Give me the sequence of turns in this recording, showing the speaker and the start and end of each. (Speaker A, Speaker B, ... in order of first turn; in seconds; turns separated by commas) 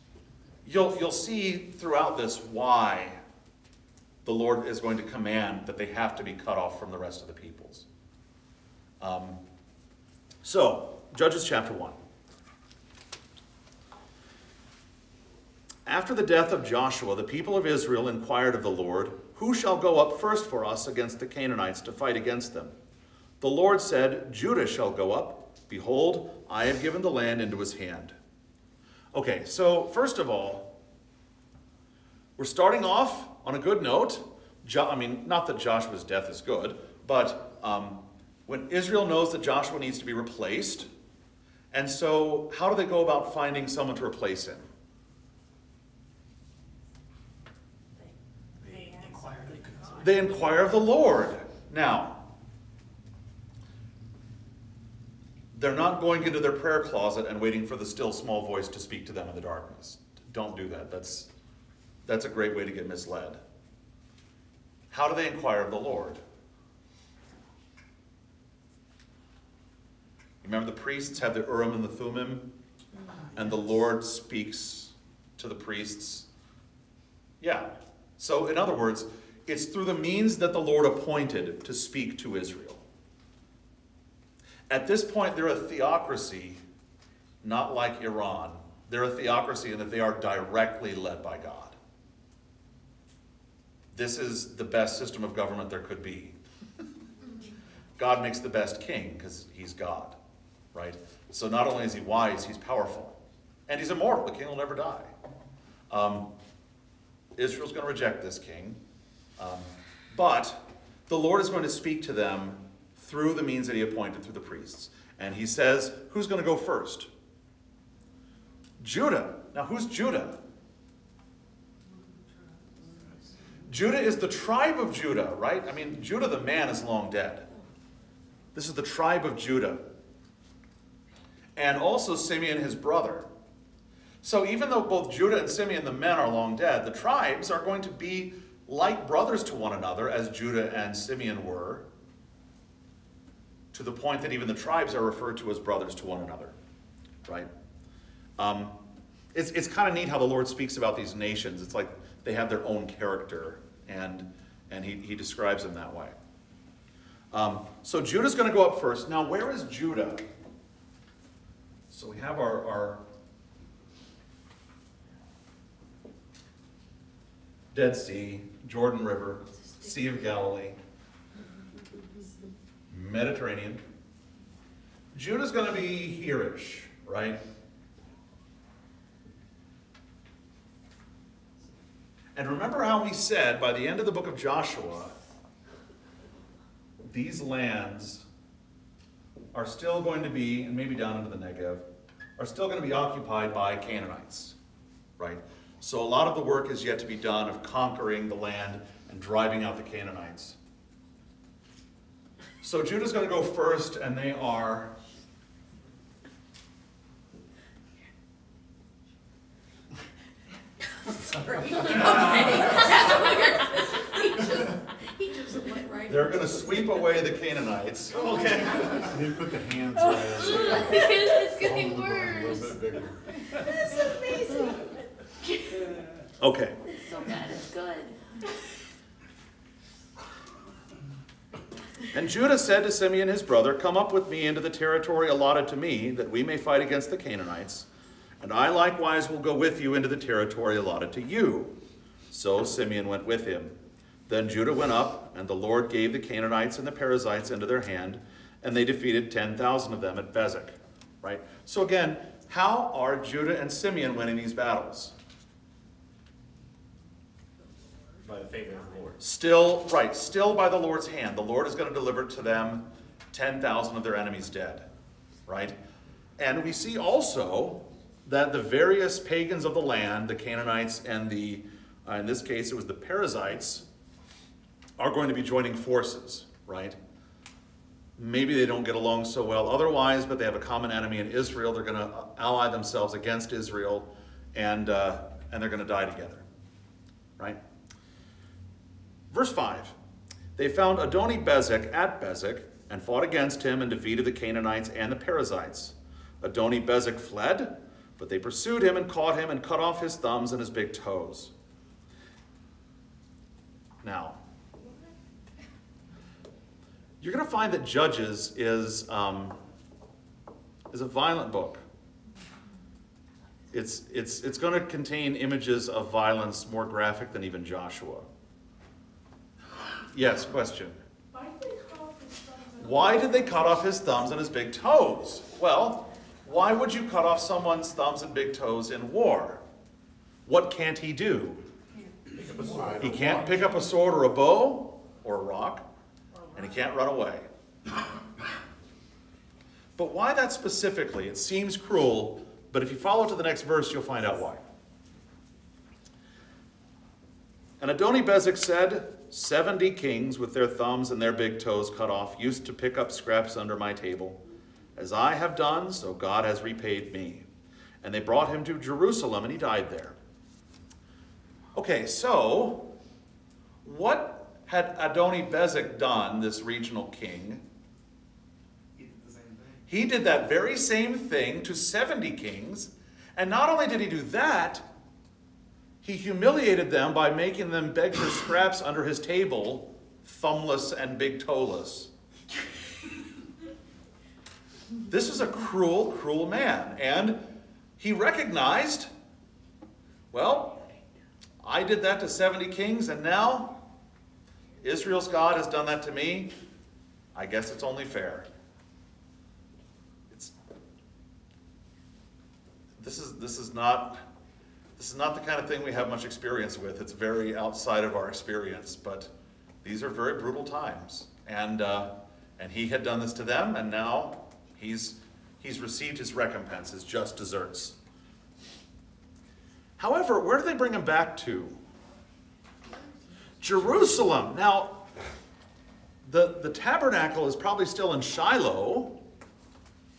Speaker A: 0.6-3.2, Speaker A: 4.2-7.9, Speaker A: 9.0-9.4, Speaker A: 10.4-12.0, Speaker A: 15.9-22.7, Speaker A: 23.4-28.1, Speaker A: 29.1-30.8, Speaker A: 32.4-40.9, Speaker A: 41.7-44.6, Speaker B: 48.6-50.0, Speaker A: 50.0-52.2, Speaker A: 55.5-61.3, Speaker A: 62.0-63.4, Speaker A: 64.9-66.2, Speaker A: 70.4-72.5, Speaker A: 73.3-76.3, Speaker A: 77.4-82.8, Speaker A: 84.7-86.6, Speaker A: 87.4-91.8, Speaker A: 93.9-96.4, Speaker A: 98.0-100.2, Speaker A: 100.7-105.1, Speaker A: 105.9-106.3, Speaker A: 107.4-108.8, Speaker A: 109.4-117.1, Speaker A: 118.8-120.4, Speaker A: 123.7-127.5, Speaker A: 128.5-129.9, Speaker A: 131.6-133.3, Speaker A: 134.2-141.9, Speaker A: 143.7-146.5, Speaker A: 147.2-147.5, Speaker A: 148.4-148.8, Speaker A: 149.3-156.1, Speaker A: 157.3-160.2, Speaker A: 161.9-163.0, Speaker A: 167.7-170.8, Speaker A: 172.9-173.8, Speaker A: 175.1-177.4, Speaker A: 182.3-185.1, Speaker A: 187.0-188.2, Speaker A: 189.5-191.8, Speaker A: 192.4-194.6, Speaker A: 195.2-200.6, Speaker A: 202.6-204.9, Speaker C: 211.0-217.0, Speaker A: 216.1-223.0, Speaker D: 220.1-220.6, Speaker C: 220.3-222.7, Speaker D: 221.8-222.2, Speaker C: 223.5-224.8, Speaker A: 226.4-226.8, Speaker C: 226.9-228.2, Speaker A: 232.1-237.9, Speaker A: 238.4-241.8, Speaker A: 242.3-255.1, Speaker B: 258.2-259.2, Speaker A: 259.2-264.9, Speaker A: 265.5-265.8, Speaker A: 266.4-273.9, Speaker A: 275.0-277.0, Speaker A: 278.2-286.4, Speaker A: 289.3-289.9, Speaker A: 290.6-301.5, Speaker A: 304.0-304.4, Speaker A: 307.2-309.6, Speaker A: 310.9-311.8, Speaker A: 313.7-318.3, Speaker A: 320.1-321.0, Speaker C: 321.4-322.5, Speaker A: 322.8-329.6, Speaker A: 330.5-331.6, Speaker B: 332.3-333.7, Speaker A: 333.0-335.9, Speaker A: 336.5-337.5, Speaker A: 340.0-344.6, Speaker A: 347.8-354.4, Speaker A: 355.0-357.5, Speaker A: 358.0-360.1, Speaker A: 361.7-362.9, Speaker A: 363.8-367.6, Speaker D: 368.9-369.9, Speaker A: 369.9-374.9, Speaker A: 376.0-382.1, Speaker A: 385.1-387.5, Speaker A: 388.0-389.1, Speaker A: 390.3-390.8, Speaker A: 391.6-393.8, Speaker A: 394.8-396.5, Speaker A: 397.3-398.5, Speaker A: 403.0-404.2, Speaker A: 405.0-409.3, Speaker A: 409.8-418.0, Speaker A: 420.0-421.8, Speaker A: 423.6-425.1, Speaker A: 426.2-429.2